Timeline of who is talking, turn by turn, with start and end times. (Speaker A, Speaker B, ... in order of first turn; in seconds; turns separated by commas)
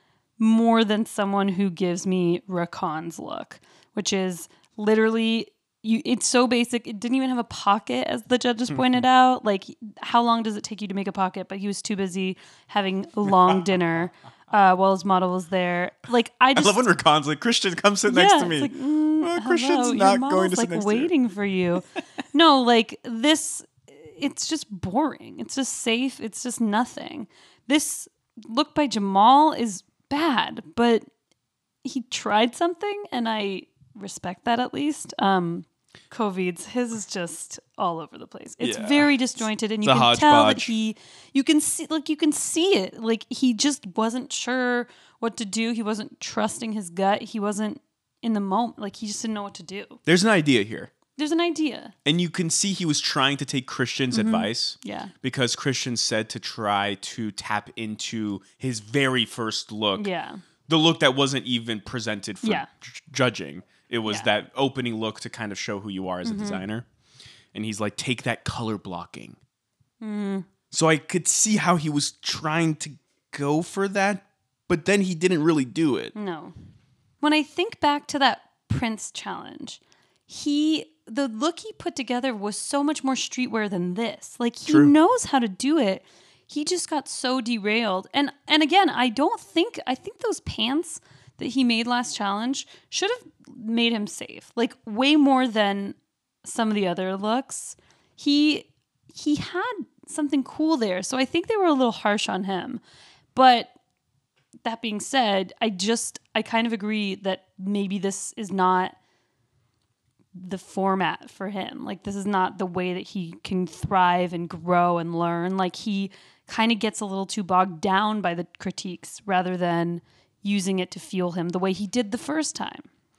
Speaker A: 0.4-16.9, Speaker B: 8.7-9.1, Speaker B: 13.2-13.7, Speaker B: 16.6-21.1, Speaker A: 18.1-31.0, Speaker A: 31.8-50.0, Speaker B: 38.6-40.8, Speaker B: 50.1-50.9, Speaker A: 51.2-51.9, Speaker B: 52.0-60.1, Speaker A: 54.1-55.1, Speaker A: 60.0-60.4, Speaker B: 60.7-66.8, Speaker A: 62.4-62.7, Speaker A: 66.2-66.6, Speaker B: 67.5-69.4, Speaker A: 70.0-70.5, Speaker B: 70.7-76.1, Speaker A: 76.2-76.5, Speaker A: 77.2-102.8, Speaker B: 84.7-84.9, Speaker A: 103.3-103.8, Speaker A: 104.6-109.0, Speaker A: 110.4-122.9